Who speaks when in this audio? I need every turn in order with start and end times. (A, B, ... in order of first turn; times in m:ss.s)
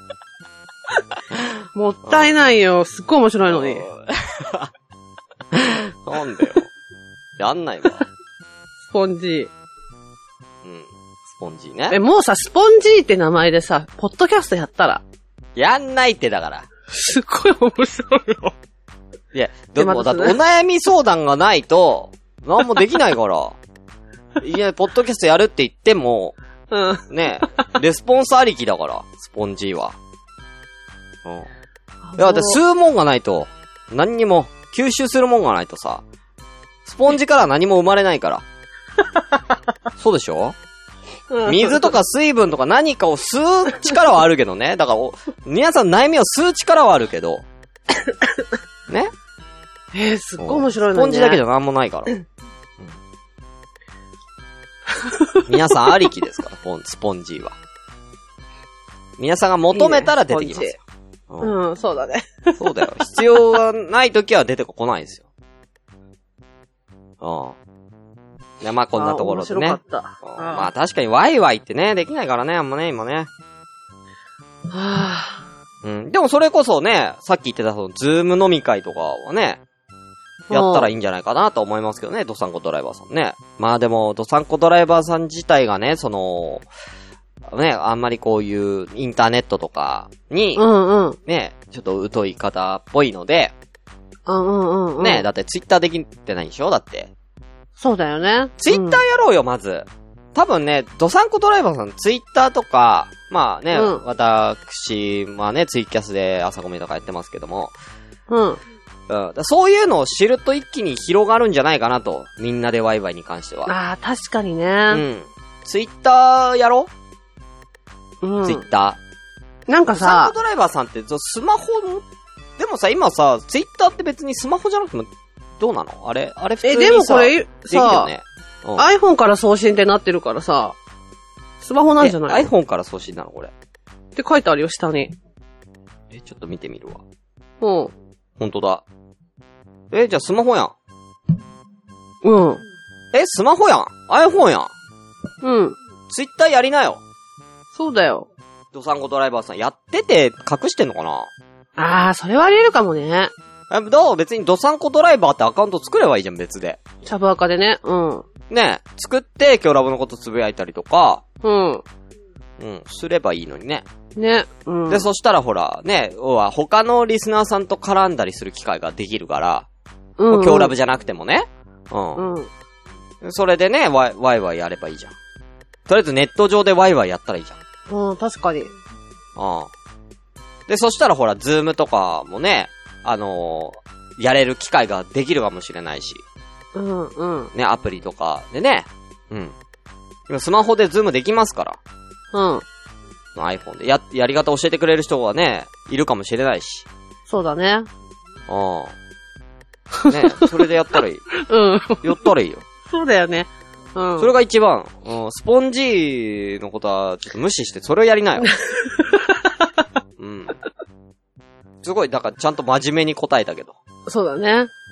0:01.7-0:03.8 A
0:02.0-0:02.3 B
0:03.5-0:04.7 B
0:05.5-0:06.7 B
0:07.4-0:08.0 B
0:08.9-0:09.5 A
0:10.6-0:12.0 B
0:11.9-0:15.0 A
0:15.6-0:16.7 B
0:16.9-0:18.5 A
0:19.3-0:23.6 B
0:19.8-0:20.4 A
0:24.4-0:26.3 B
0:26.7-0:27.0 A
0:27.1-0:30.0 B
0:32.0-0:32.6 A
0:32.2-0:36.0 B
0:36.8-0:38.4 B
0:40.0-0:40.6 B
0:41.3-0:41.9 A
0:41.4-0:47.4 B
0:49.9-0:51.4 A
0:50.4-0:52.2 B
0:55.0-0:55.3 A
0:55.5-0:57.6 B
0:59.2-1:00.8 B
0:59.7-1:00.8 A
1:01.3-1:01.5 B
1:01.4-1:02.6 A
1:02.6-1:05.2 B
1:07.2-1:07.6 B
1:08.6-1:13.3 B
1:09.0-1:10.7 A
1:14.7-1:15.5 A
1:15.8-1:19.6 B
1:20.5-1:20.9 A
1:20.5-1:26.7 B
1:27.5-1:30.6 B
1:30.6-1:31.2 A
1:31.2-1:33.5 B
1:34.2-1:35.2 A
1:35.0-1:37.1 B
1:37.8-1:39.0 A
1:38.6-1:47.7 B
1:43.7-1:44.0 A
1:48.3-1:48.6 A
1:49.1-1:53.7 B
1:53.6-1:55.0 A
1:54.9-1:56.9 B
1:58.2-1:58.6 A
1:58.4-1:59.0 B
1:59.7-2:00.3 A
1:59.9-2:02.0 B
2:02.6-2:08.8 B
2:06.6-2:08.1 A
2:08.8-2:10.7 A
2:11.6-2:12.5 A
2:12.0-2:13.5 B
2:14.2-2:15.1 A
2:16.1-2:17.0 B
2:17.6-2:17.9 A
2:18.4-2:18.8 B
2:19.9-2:20.7 B
2:22.2-2:22.6 A
2:23.1-2:24.7 B
2:25.4-2:25.8 A
2:26.1-2:27.0 B
2:27.7-2:28.3 A
2:28.7-2:31.3 B
2:31.8-2:33.3 A
2:33.7-2:36.8 B
2:37.0-2:38.2 A
2:38.5-2:41.2 B
2:41.4-2:41.8 A
2:42.6-2:43.8 B
2:44.2-2:45.0 A
2:44.9-2:49.7 B
2:50.2-2:50.7 A
2:50.3-2:52.2 B
2:52.2-2:52.5 A
2:53.2-2:55.1 B
2:55.9-2:57.6 B
2:57.9-2:58.7 A
2:59.4-2:59.7 B
3:00.7-3:06.2 B
3:06.7-3:07.5 A
3:07.5-3:09.5 B
3:10.3-3:11.8 B
3:12.3-3:12.6 A
3:13.3-3:16.8 B
3:17.3-3:17.9 A
3:18.5-3:18.9 B
3:20.0-3:20.5 A
3:20.1-3:21.3 B
3:21.3-3:22.1 A
3:22.0-3:22.6 B
3:22.9-3:24.3 A
3:24.2-3:28.5 B
3:30.2-3:30.6 B
3:31.8-3:33.7 B
3:34.1-3:34.7 A